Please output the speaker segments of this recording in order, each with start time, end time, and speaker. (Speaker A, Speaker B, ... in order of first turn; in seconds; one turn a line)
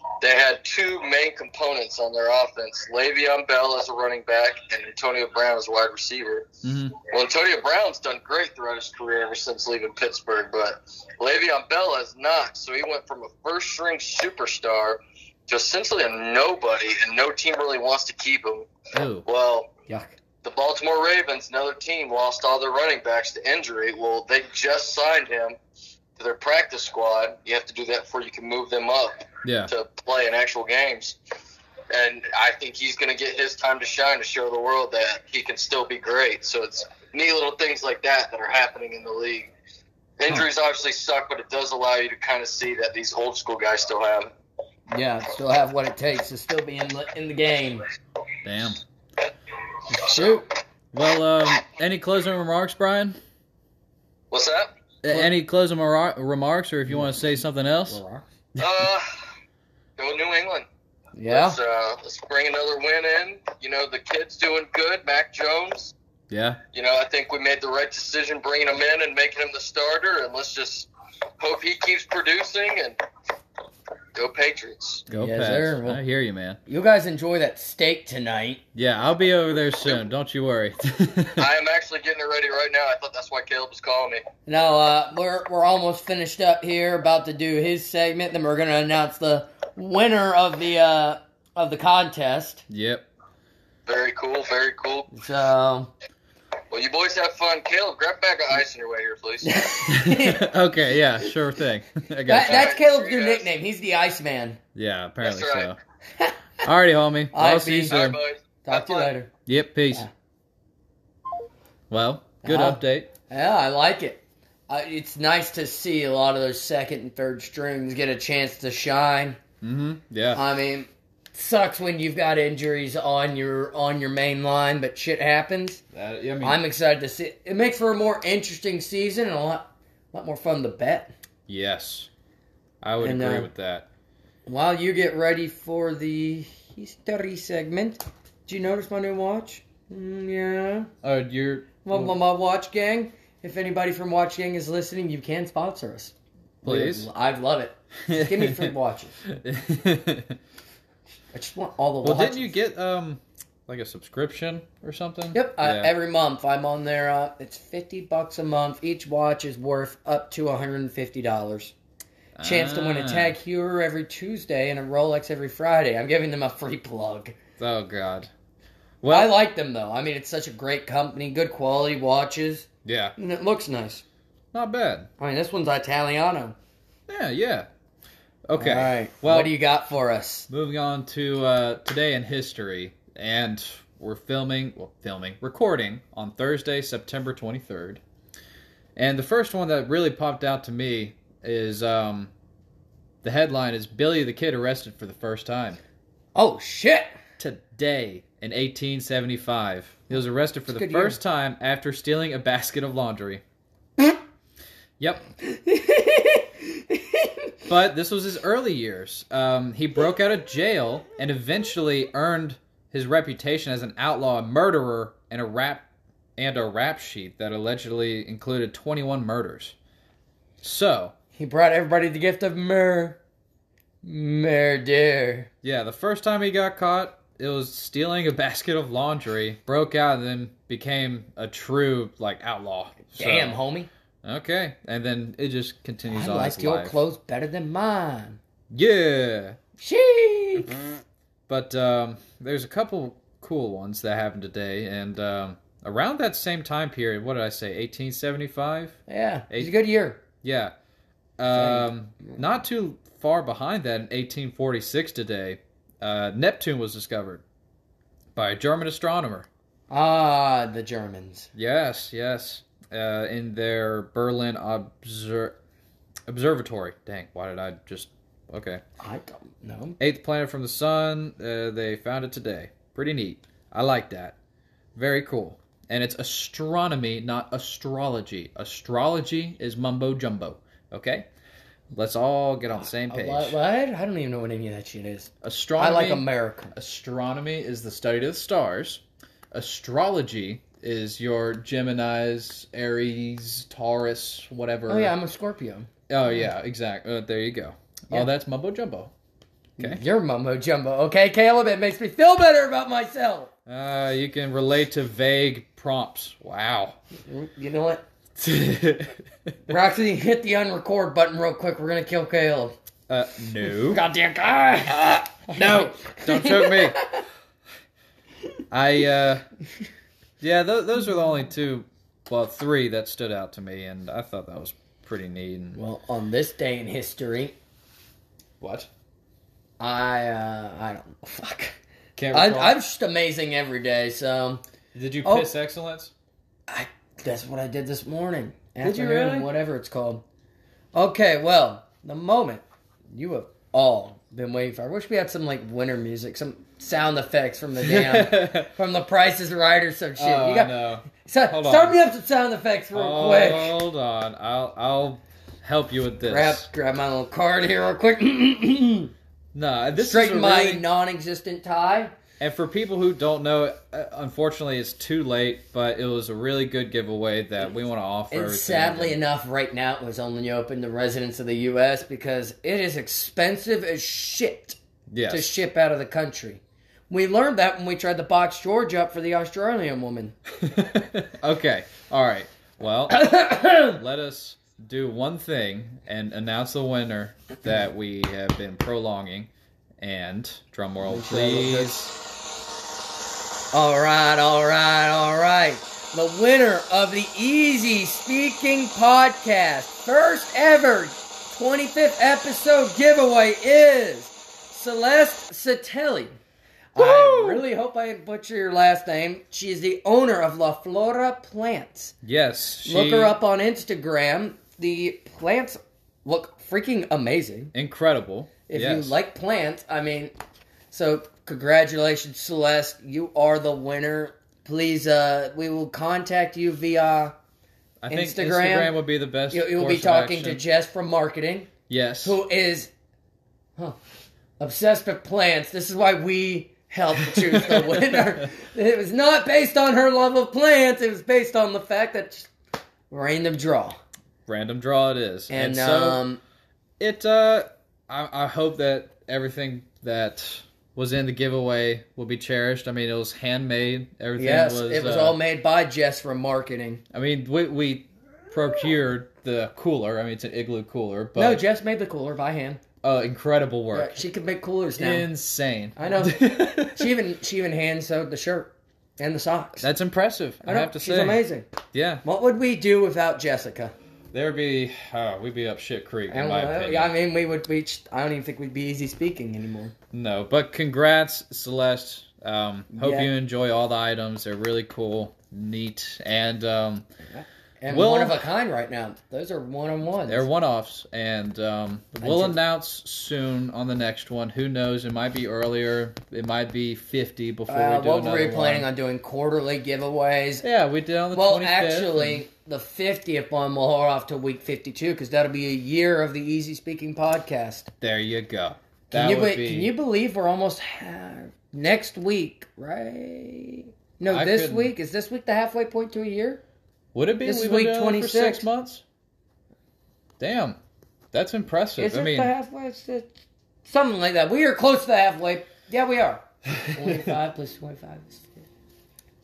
Speaker A: 0.2-18.7
Speaker B: 6.6-7.0
Speaker B: 18.9-19.3
Speaker A: 19.3-19.7
Speaker C: 19.9-20.1
Speaker A: 20.4-25.6
Speaker A: 26.2-31.2
Speaker B: 29.4-29.7
Speaker A: 31.9-39.5
Speaker A: 40.2-44.3
Speaker C: 44.9-47.8
Speaker B: 48.4-48.8
Speaker C: 49.9-50.4
Speaker A: 50.0-50.4
Speaker B: 50.9-53.2
Speaker A: 54.3-54.7
Speaker B: 55.0-58.0
Speaker C: 56.9-57.1
Speaker C: 57.9-58.2
Speaker A: 58.6-59.1
Speaker A: 60.0-60.6
Speaker C: 61.1-61.6
Speaker A: 61.3-65.9
Speaker B: 66.3-66.6
Speaker A: 66.7-70.9
Speaker A: 71.4-73.0
Speaker A: 74.1-75.0
Speaker B: 75.1-76.6
Speaker C: 75.1-76.0
Speaker C: 76.7-78.6
Speaker B: 78.7-81.5
Speaker A: 81.4-84.2
Speaker C: 84.5-92.6
Speaker B: 92.7-93.1
Speaker A: 93.8-95.1
Speaker C: 95.1-95.9
Speaker A: 96.7-99.5
Speaker C: 99.4-100.5
Speaker B: 99.9-102.7
Speaker C: 102.2-104.6
Speaker A: 102.4-103.5
Speaker B: 104.7-105.8
Speaker A: 105.2-105.7
Speaker B: 106.6-108.2
Speaker C: 107.3-108.0
Speaker A: 107.9-109.1
Speaker C: 108.6-109.3
Speaker B: 109.5-110.1
Speaker B: 111.9-113.1
Speaker C: 112.4-119.4
Speaker B: 119.6-120.4
Speaker C: 120.3-125.8
Speaker B: 125.9-126.6
Speaker C: 126.4-131.1
Speaker B: 131.5-132.1
Speaker B: 132.8-133.8
Speaker C: 133.0-133.5
Speaker C: 134.4-140.9
Speaker B: 141.0-142.2
Speaker C: 141.8-149.2
Speaker B: 146.6-147.1
Speaker B: 148.1-148.7
Speaker B: 149.3-150.4
Speaker C: 151.3-152.5
Speaker B: 152.0-155.9
Speaker C: 155.3-161.7
Speaker B: 162.3-163.4
Speaker C: 162.4-167.3
Speaker B: 167.6-168.3
Speaker B: 169.0-169.4
Speaker C: 169.1-174.0
Speaker B: 172.8-173.1
Speaker B: 174.5-175.1
Speaker C: 175.2-176.6
Speaker B: 177.1-177.7
Speaker B: 178.5-179.5
Speaker C: 178.6-180.5
Speaker B: 180.5-188.0
Speaker B: 188.9-192.3
Speaker B: 193.2-195.8
Speaker C: 196.3-197.1
Speaker B: 197.4-203.4
Speaker C: 200.7-201.2
Speaker B: 205.0-205.3
Speaker C: 205.4-207.5
Speaker B: 207.7-215.8
Speaker B: 216.4-219.7
Speaker B: 220.6-221.1
Speaker C: 221.3-223.2
Speaker C: 224.0-225.5
Speaker B: 225.6-233.6
Speaker C: 233.1-233.9
Speaker B: 234.2-236.9
Speaker C: 236.1-238.4
Speaker B: 238.7-239.6
Speaker C: 239.8-240.8
Speaker B: 241.5-249.7
Speaker C: 249.1-250.2
Speaker B: 250.4-250.7
Speaker B: 251.4-257.4
Speaker C: 251.5-252.4
Speaker B: 258.3-259.5
Speaker C: 259.9-261.5
Speaker B: 261.5-265.6
Speaker B: 266.3-268.8
Speaker C: 269.0-270.0
Speaker B: 270.0-274.3
Speaker B: 274.9-281.3
Speaker B: 281.9-283.6
Speaker C: 282.8-286.7
Speaker B: 285.4-295.1
Speaker C: 294.9-296.5
Speaker B: 296.1-299.1
Speaker B: 299.8-300.0
Speaker C: 299.8-303.5
Speaker B: 303.6-307.0
Speaker C: 307.2-308.0
Speaker B: 308.4-309.8
Speaker C: 309.7-312.8
Speaker B: 313.1-314.0
Speaker C: 313.7-317.2
Speaker B: 314.9-317.0
Speaker B: 318.7-319.4
Speaker B: 320.4-325.8
Speaker C: 325.7-327.5
Speaker B: 328.6-328.9
Speaker C: 329.8-331.8
Speaker B: 332.1-332.8
Speaker C: 332.3-334.6
Speaker B: 334.9-336.1
Speaker C: 335.2-335.5
Speaker C: 336.7-340.2
Speaker B: 338.8-339.5
Speaker C: 340.9-353.7
Speaker B: 347.8-348.7
Speaker B: 350.2-352.0
Speaker B: 352.9-356.7
Speaker C: 356.3-359.1
Speaker B: 359.5-360.8
Speaker C: 359.9-362.1
Speaker B: 362.4-369.2
Speaker C: 368.3-380.4
Speaker B: 375.1-375.5
Speaker B: 380.6-392.2
Speaker C: 383.1-384.0
Speaker C: 391.0-391.9
Speaker C: 393.7-406.3
Speaker C: 406.9-412.1
Speaker B: 406.9-407.6
Speaker B: 412.2-413.4
Speaker C: 412.8-417.7
Speaker B: 417.7-419.1
Speaker C: 418.7-420.3
Speaker C: 420.9-427.3
Speaker B: 428.0-430.6
Speaker C: 428.1-429.0
Speaker C: 429.5-431.7
Speaker B: 431.9-432.4
Speaker C: 432.2-432.9
Speaker C: 434.6-442.5
Speaker B: 437.3-438.4
Speaker C: 443.1-444.0
Speaker B: 444.5-446.2
Speaker C: 445.5-446.4
Speaker B: 447.0-455.4
Speaker C: 454.4-457.0
Speaker B: 457.1-461.6
Speaker C: 461.4-462.8
Speaker B: 463.0-464.2
Speaker C: 463.9-465.3
Speaker B: 465.0-467.1
Speaker C: 465.9-469.9
Speaker B: 469.8-472.2
Speaker C: 470.6-471.7
Speaker C: 472.2-473.9
Speaker B: 474.3-477.1
Speaker C: 476.3-479.9
Speaker B: 480.1-487.0
Speaker C: 482.9-483.3
Speaker C: 487.2-490.4
Speaker B: 487.9-488.4
Speaker B: 490.2-498.9
Speaker C: 492.2-492.5
Speaker C: 497.7-500.6
Speaker B: 500.6-502.4
Speaker C: 501.3-507.9
Speaker B: 508.0-509.9
Speaker C: 509.1-516.6
Speaker B: 514.3-514.9
Speaker B: 517.1-519.0
Speaker C: 517.4-518.6
Speaker B: 520.4-520.8
Speaker B: 521.3-522.5
Speaker C: 522.0-523.3
Speaker C: 523.8-528.6
Speaker B: 526.7-527.4